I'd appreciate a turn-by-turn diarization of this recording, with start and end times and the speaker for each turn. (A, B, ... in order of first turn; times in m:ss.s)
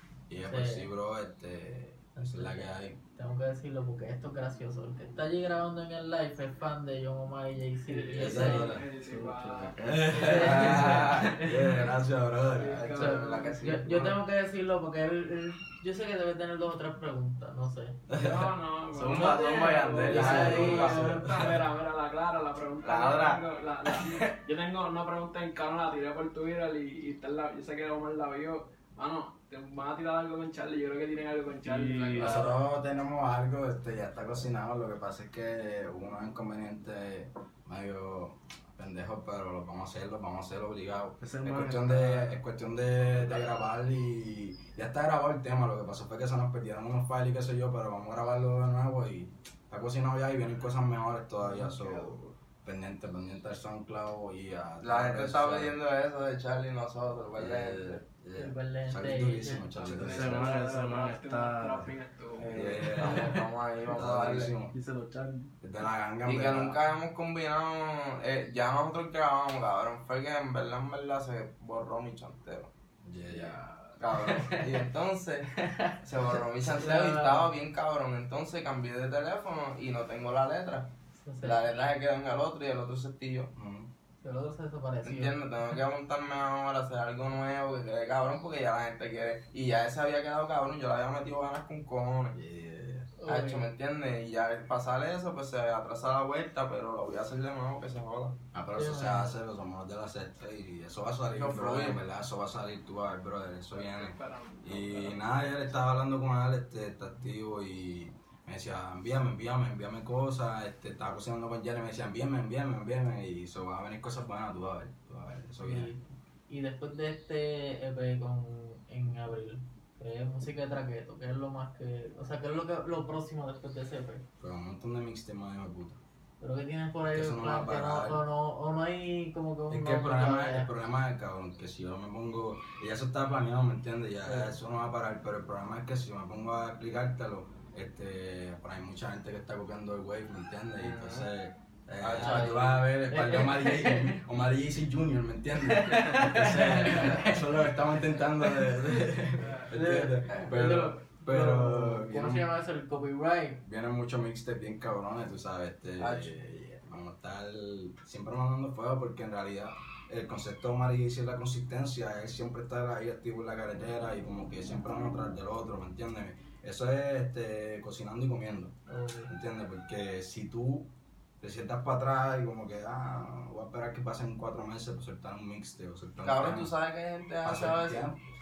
0:00.3-0:03.0 A
0:00.4-0:00.9 B
0:02.2-0:08.8 B
0:07.9-0:11.0 C
0:08.2-0:08.8 A
0:08.9-0:10.5 D
0:09.8-0:13.2 A
0:10.1-0:11.9 B
0:10.5-0:11.3 E
0:12.4-0:13.6 C
0:12.6-0:14.2 E
0:13.0-0:18.0 B
0:18.1-0:21.6 A
0:18.1-0:32.6 C
0:19.0-0:20.9 D
0:19.1-0:21.3 B
0:19.5-0:20.8 E
0:22.8-0:23.4 E
0:22.8-0:23.3 A
0:31.6-0:32.5 D
0:32.2-0:55.8 A
0:41.2-0:42.4 D
0:51.5-0:52.0 B
0:54.8-0:58.0 E
0:57.4-1:00.5 A
0:58.4-0:59.7 B
0:59.8-1:03.0 C
0:59.9-1:01.9 D
1:02.4-1:04.5 E
1:02.5-1:04.8 A
1:04.7-1:05.5 D
1:05.6-1:06.8 A
1:06.2-1:12.7 E
1:13.0-1:14.0 A
1:13.2-1:20.9 E
1:15.6-1:16.0 B
1:16.6-1:17.5 B
1:21.2-1:21.6 B
1:21.4-1:23.5 E
1:23.6-1:23.9 A
1:24.2-1:25.4 B
1:25.0-1:32.4 E
1:32.3-1:33.1 A
1:33.2-1:33.7 B
1:33.3-1:38.4 E
1:38.5-1:55.9 A
1:38.8-1:39.4 B
1:41.3-1:42.0 E
1:43.7-1:45.4 C
1:55.6-2:04.2 B
2:04.4-2:06.0 A
2:06.4-2:10.7 B
2:07.1-2:08.2 A
2:09.7-2:32.5 A
2:20.8-2:21.3 E
2:22.0-2:22.9 E
2:22.2-2:24.1 B
2:25.6-2:27.5 B
2:29.4-2:29.7 C
2:29.7-2:33.6 B
2:33.6-2:48.8 A
2:36.0-2:36.3 E
2:48.9-2:49.3 B
2:49.3-2:50.9 A
2:51.4-2:56.7 A
2:56.2-2:58.1 E
2:57.4-2:58.2 A